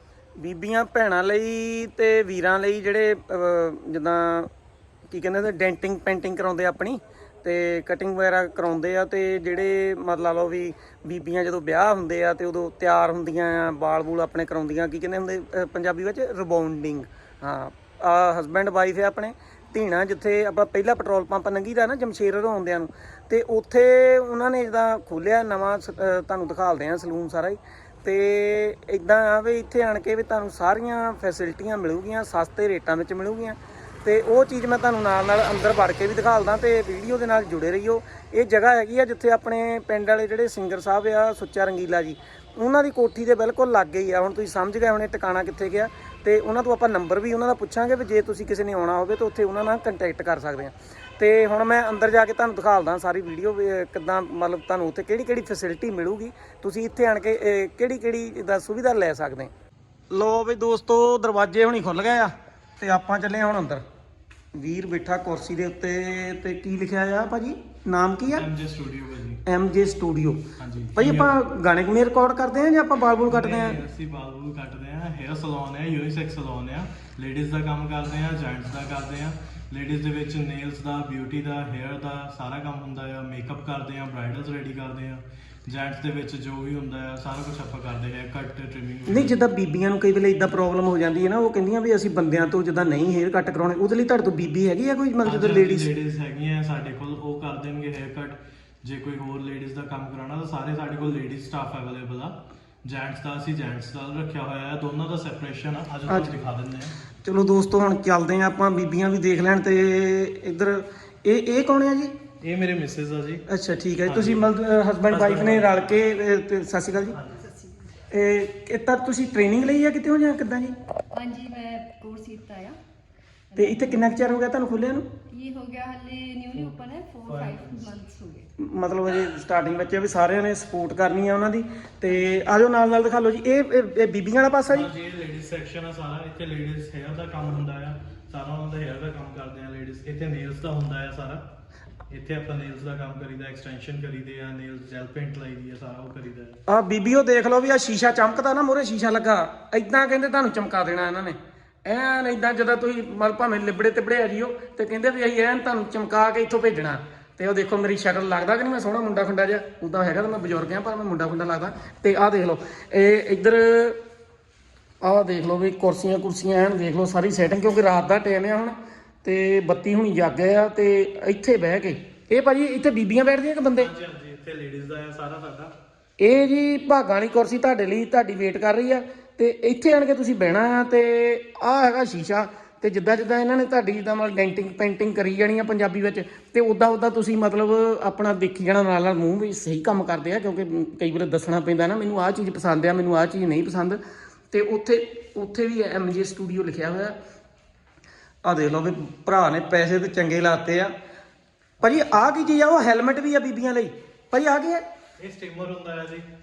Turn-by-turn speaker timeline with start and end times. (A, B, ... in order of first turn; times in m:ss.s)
0:00.4-0:04.5 A
0:05.1-0:59.5 A
1:00.1-1:03.8 A
1:04.5-1:08.5 A
1:08.3-1:09.4 B
1:09.5-1:10.4 A
1:10.6-1:11.4 B
1:11.0-1:13.8 A
1:13.3-1:29.3 B
1:29.1-1:35.9 A
1:35.2-1:47.0 B
1:46.1-1:46.4 A
1:47.2-1:52.1 A
1:52.4-1:53.4 B
1:53.5-1:57.2 A
1:54.1-1:54.5 B
1:55.1-1:55.9 B
1:57.1-1:57.4 B
1:58.1-2:00.7 A
2:01.1-2:02.8 C
2:03.5-2:04.0 C
2:03.6-2:05.1 A
2:05.3-2:08.5 C
2:07.3-2:07.8 B
2:08.6-2:14.9 A
2:14.7-2:21.5 B
2:22.1-2:26.6 B
2:26.7-2:44.0 A
2:45.0-2:53.9 A
2:53.8-2:55.8 B
2:56.2-3:14.0 A
3:14.5-3:17.2 A
3:18.4-3:20.9 A
3:21.8-3:24.8 A
3:25.2-3:26.3 B